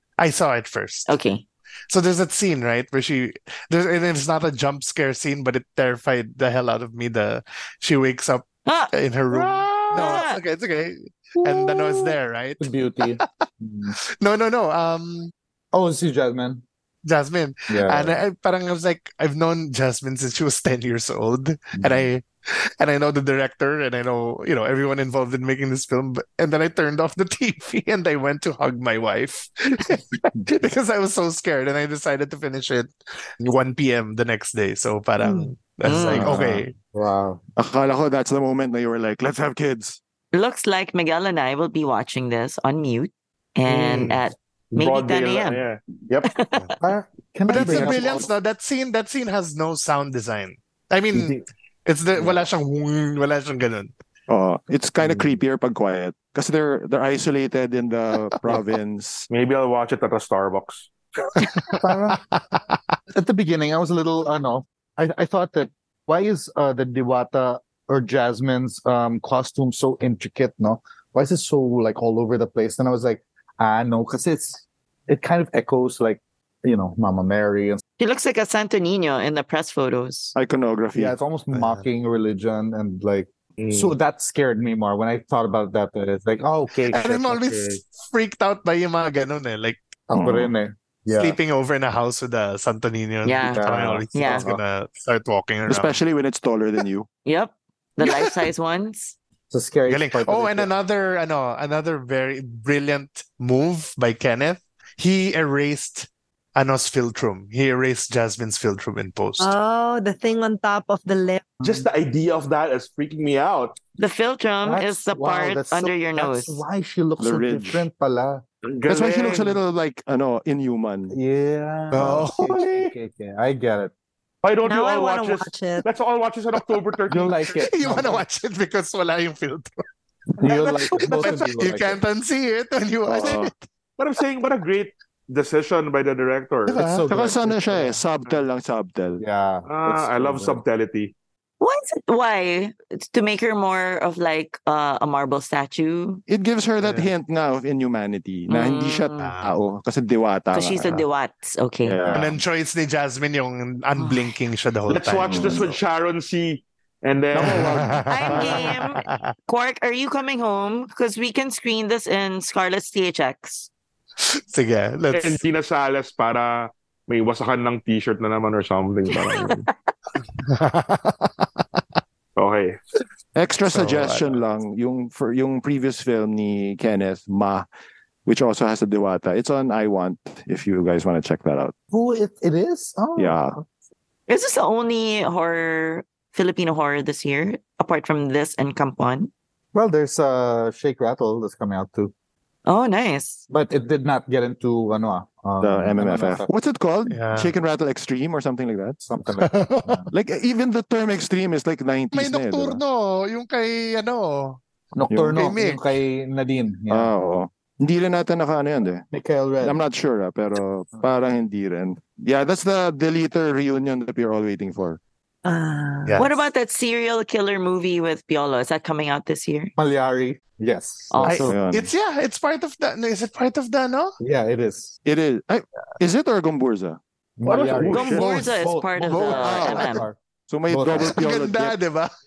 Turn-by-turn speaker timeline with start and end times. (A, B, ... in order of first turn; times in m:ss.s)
0:00.2-0:01.1 A
0:01.0-0:01.4 B
0:01.9-0:13.4 A
0:08.6-0:08.9 B
0:09.3-0:09.7 C
0:09.9-0:10.4 B
0:11.5-0:11.9 D
0:12.6-0:14.0 D
0:14.2-0:15.3 A
0:15.7-0:16.6 D
0:17.0-0:36.7 A
0:17.7-0:18.2 D
0:21.8-0:22.0 D
0:35.2-0:35.5 E
0:35.8-0:36.3 B
0:36.1-0:37.4 D
0:36.1-0:36.4 F
0:37.6-0:40.0 F
0:40.3-0:45.6 B
0:43.6-0:46.3 C
0:46.3-0:46.8 B
0:46.8-0:48.3 D
0:47.5-0:53.9 A
0:47.6-0:47.9 F
0:54.3-0:59.3 F
0:59.3-1:00.9 C
1:01.4-1:02.2 A
1:01.8-1:02.2 D
1:03.1-1:17.8 D
1:18.0-1:20.4 B
1:20.3-1:21.1 F
1:21.0-1:27.6 D
1:21.5-1:21.8 A
1:23.6-1:23.9 C
1:26.9-1:29.8 A
1:30.1-1:31.4 D
1:30.1-1:30.5 F
1:31.1-1:35.9 A
1:33.2-1:34.5 B
1:33.5-1:34.6 D
1:35.7-1:37.1 F
1:37.2-1:39.2 B
1:38.0-1:38.4 A
1:39.5-1:40.7 D
1:39.9-1:49.5 A
1:49.4-1:51.6 E
1:51.6-1:53.8 C
1:54.0-1:56.6 B
1:54.6-1:58.4 D
1:57.2-1:57.9 F
1:58.6-1:59.6 C
1:58.9-2:01.2 F
2:01.1-2:03.9 D
2:01.9-2:02.4 A
2:02.3-2:02.9 C
2:04.4-2:07.4 C
2:04.6-2:05.8 E
2:07.1-2:08.2 D
2:07.6-2:09.7 A
2:10.4-2:12.0 D
2:10.4-2:13.6 A
2:13.1-2:13.5 F
2:14.0-2:16.8 C
2:16.7-2:17.1 A
2:16.7-2:18.0 D
2:17.1-2:19.2 F
2:19.2-2:20.6 D
2:19.6-2:21.1 C
2:21.6-2:26.2 B
2:26.3-2:31.0 F
2:26.8-2:27.1 A
2:28.5-2:29.4 B
2:29.2-2:29.5 A
2:30.5-2:32.0 B
2:31.8-2:32.4 F
2:32.1-2:35.8 A
2:34.0-2:34.3 B
2:34.9-2:38.0 C
2:35.2-2:35.6 F
2:37.3-2:38.7 F
2:37.5-2:39.3 A
2:38.1-2:43.7 B
2:44.2-2:45.4 A
2:45.1-2:49.7 C
2:49.1-2:49.6 B
2:50.4-2:51.6 A
2:52.4-2:52.8 C
2:53.3-2:57.6 F
2:53.7-2:54.4 A
2:58.2-3:01.7 F
3:01.9-3:03.6 D
3:03.2-3:03.6 F
3:04.3-3:09.3 B
3:09.7-3:12.1 D
3:12.6-3:13.4 B
3:13.5-3:16.5 D
3:15.6-3:19.0 F
3:17.1-3:17.5 A
3:19.0-3:20.1 D
3:19.4-3:20.0 A
3:20.1-3:22.8 F
3:22.1-3:24.6 A
3:24.9-3:27.1 D
3:25.1-3:25.4 F
3:25.3-3:25.8 A
3:26.9-3:29.1 F
3:29.1-3:29.8 D
3:29.6-3:35.0 F
3:35.4-3:36.3 E
3:36.1-3:36.3 A
3:36.2-3:39.7 B
3:39.8-3:41.5 D
3:41.1-3:41.6 B
3:41.2-3:41.9 F
3:41.2-3:44.1 A
3:44.2-3:45.0 D
3:45.0-3:47.0 F
3:47.4-3:50.2 D
3:47.4-3:48.3 C
3:47.8-3:48.3 F
3:47.9-3:50.0 B
3:49.2-3:51.8 F
3:50.7-3:51.2 D
3:51.0-3:52.1 A